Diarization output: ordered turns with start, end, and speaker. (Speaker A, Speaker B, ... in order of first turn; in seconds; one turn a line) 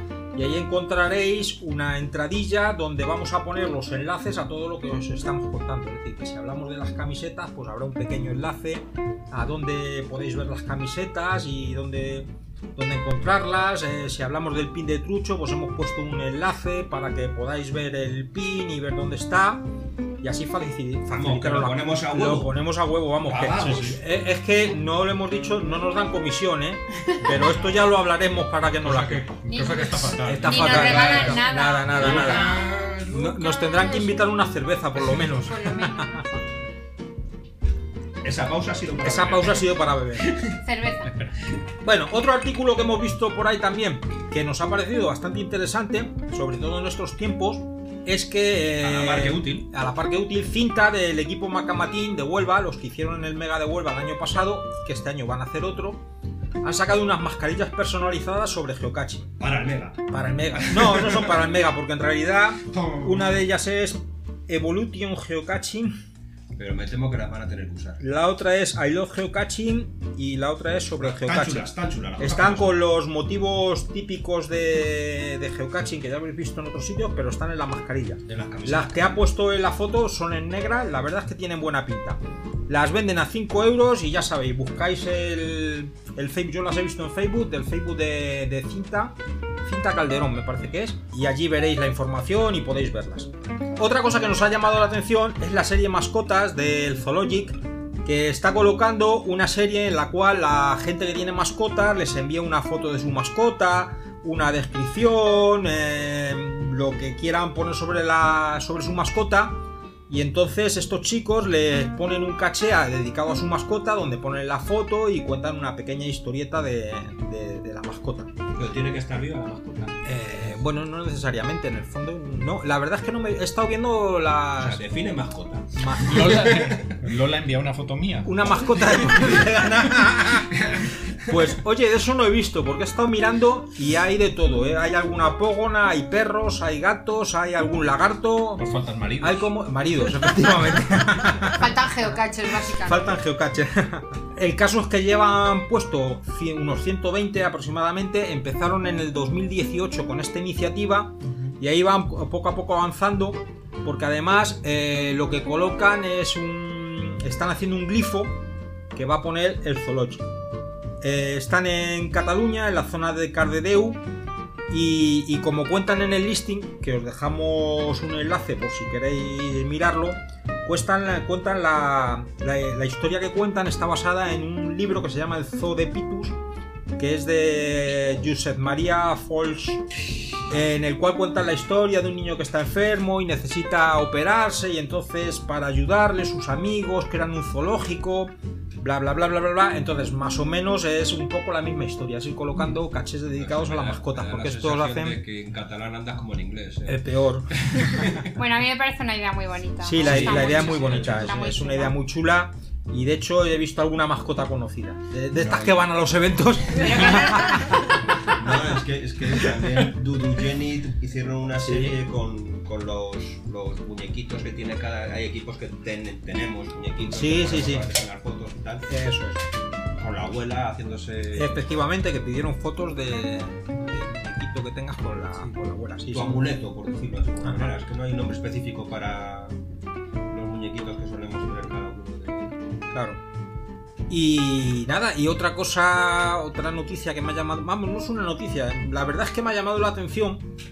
Speaker A: 0.3-19.6
Speaker A: 20.2-29.3
Speaker B: 21.1-22.6
Speaker B: 23.3-23.9
Speaker C: 23.4-24.0
Speaker C: 28.8-31.4
Speaker D: 29.5-32.7
Speaker A: 30.2-32.6
Speaker B: 30.7-31.4
Speaker B: 31.9-33.4
Speaker A: 33.1-36.2
Speaker D: 33.4-34.4
Speaker D: 35.4-36.4
Speaker B: 38.2-39.7
Speaker A: 39.0-40.3
Speaker B: 40.2-40.6
Speaker D: 40.6-41.1
Speaker C: 41.0-41.4
Speaker A: 41.8-56.0
Speaker B: 48.8-49.7
Speaker A: 56.6-59.3
Speaker B: 59.4-61.5
Speaker A: 60.1-66.0
Speaker B: 62.7-63.5
Speaker B: 66.5-68.0
Speaker A: 68.0-118.3
Speaker B: 71.0-72.8
Speaker B: 78.3-79.2
Speaker B: 118.5-120.0
Speaker A: 120.0-124.8
Speaker B: 124.6-127.0
Speaker A: 125.8-126.6
Speaker C: 126.1-128.6
Speaker A: 128.2-130.6
Speaker B: 129.0-129.9
Speaker B: 130.5-131.5
Speaker A: 131.3-138.6
Speaker C: 138.6-139.5
Speaker A: 139.2-141.7
Speaker D: 141.4-143.2
Speaker A: 142.7-158.4
Speaker A: 158.9-160.2
Speaker A: 161.0-164.0
Speaker A: 164.7-176.4
Speaker A: 177.0-179.8
Speaker A: 180.5-195.2
Speaker B: 193.4-198.3
Speaker A: 196.9-198.1
Speaker D: 198.3-202.0
Speaker A: 199.8-207.9
Speaker B: 200.0-201.5
Speaker B: 205.4-205.8
Speaker B: 206.8-207.0
Speaker D: 207.0-207.7
Speaker B: 208.2-218.9
Speaker A: 211.6-212.0
Speaker A: 217.1-217.9
Speaker A: 218.9-219.4
Speaker B: 220.0-221.6
Speaker A: 221.3-226.5
Speaker B: 226.1-229.6
Speaker A: 227.4-227.8
Speaker B: 230.3-232.6
Speaker A: 232.9-233.2
Speaker A: 234.1-240.5